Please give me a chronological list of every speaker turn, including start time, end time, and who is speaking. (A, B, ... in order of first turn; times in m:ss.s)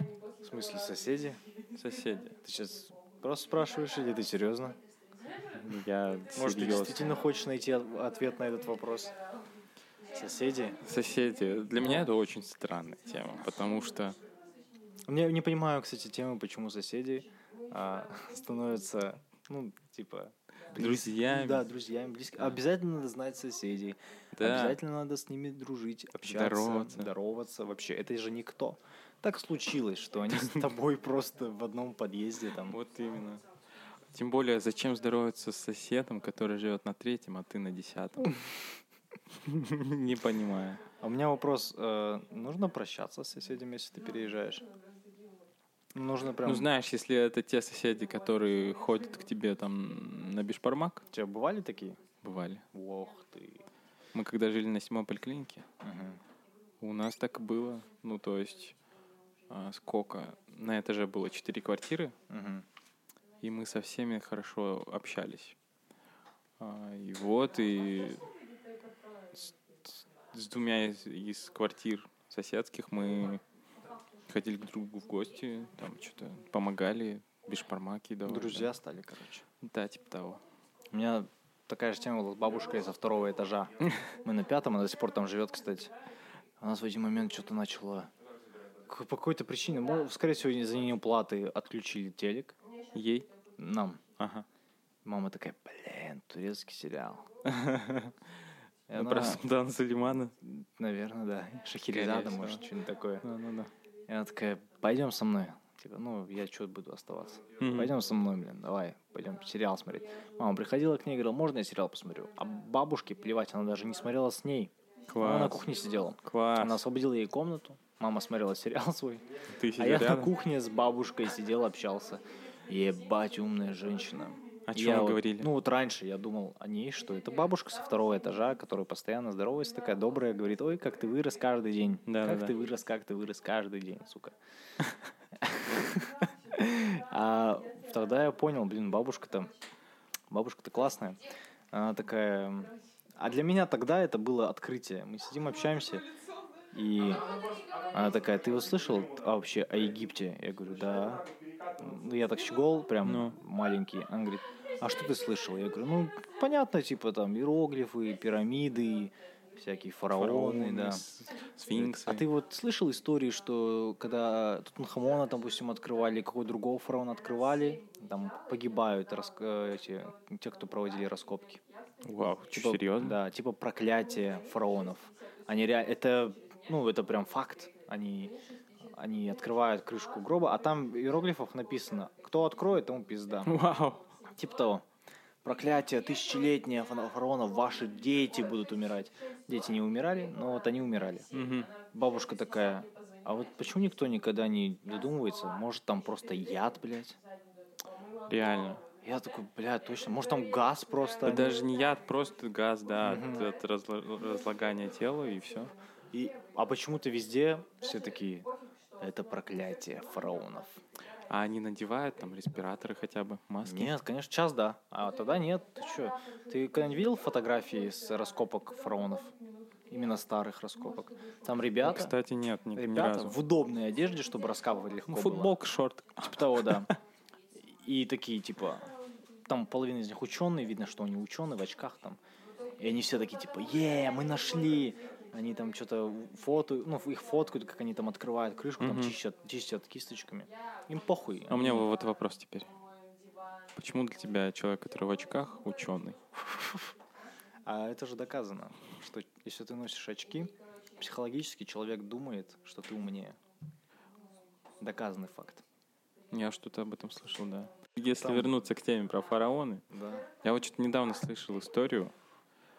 0:00.4-0:01.4 A
0:01.8-0:02.4 B
0:02.4-0:04.8 A
0:05.6-0:07.2 B
0:06.4-0:09.1 A
0:10.1-0:10.8 A
0:10.8-0:14.2 B
0:15.1-0:32.8 A
0:20.8-0:21.7 B
0:24.3-0:24.8 B
0:26.2-0:27.1 B
0:32.6-0:33.4 B
0:34.1-0:38.4 B
0:39.4-0:40.8 B
0:41.0-0:44.7 A
0:46.0-0:46.7 A
0:46.4-0:51.0 B
0:51.1-0:52.0 A
0:52.2-0:52.6 B
0:52.7-0:53.6 A
0:54.1-0:55.6 B
0:55.8-0:56.2 A
0:56.8-0:58.8 B
0:59.5-1:02.2 B
1:02.3-1:02.6 A
1:03.4-1:05.6 B
1:06.6-1:08.3 B
1:10.3-1:13.4 B
1:14.3-1:18.7 B
1:18.2-1:19.4 A
1:19.6-1:20.4 B
1:20.9-1:25.9 A
1:26.6-1:28.1 A
1:28.9-1:32.6 A
1:32.9-1:33.3 B
1:33.6-1:34.0 A
1:34.2-1:34.5 B
1:35.0-1:37.3 A
1:37.4-1:38.2 B
1:38.9-1:39.4 A
1:38.9-1:40.3 B
1:40.4-1:43.2 A
1:41.9-1:42.6 B
1:43.2-1:43.7 B
1:44.1-1:59.2 A
1:47.6-1:48.0 B
1:55.1-1:55.7 B
1:56.2-1:56.8 B
1:59.6-2:00.3 B
1:59.8-2:14.4 A
2:04.7-2:05.5 B
2:12.1-2:12.5 B
2:15.4-2:19.5 A
2:20.3-2:26.1 A
2:26.7-2:27.4 A
2:27.9-2:31.3 A
2:31.8-2:41.0 A
2:33.0-2:33.4 B
2:40.2-2:42.3 B
2:41.7-2:51.6 A
2:52.0-2:53.2 B
2:52.5-3:03.6 A
3:03.4-3:04.1 B
3:04.3-3:04.8 A
3:05.4-3:11.3 A
3:11.3-3:11.7 B
3:11.9-3:17.2 A
3:18.3-3:18.8 B
3:19.0-3:21.6 A
3:21.2-3:25.7 B
3:23.0-3:23.5 A
3:26.1-3:30.8 A
3:31.3-3:33.9 B
3:33.6-3:39.3 A
3:39.9-3:42.1 A
3:41.8-3:43.4 B
3:42.8-3:45.6 A
3:45.1-3:47.0 B
3:46.2-3:46.9 A
3:47.6-3:48.9 A
3:49.5-3:52.2 A
3:52.8-4:01.9 A
3:58.8-3:59.2 B
4:01.5-4:02.7 B
4:03.8-4:06.2 B
4:07.6-4:13.4 A
4:14.8-4:15.6 A
4:16.3-4:19.8 B
4:18.1-4:18.6 A
4:19.9-4:20.3 A
4:20.4-4:22.1 B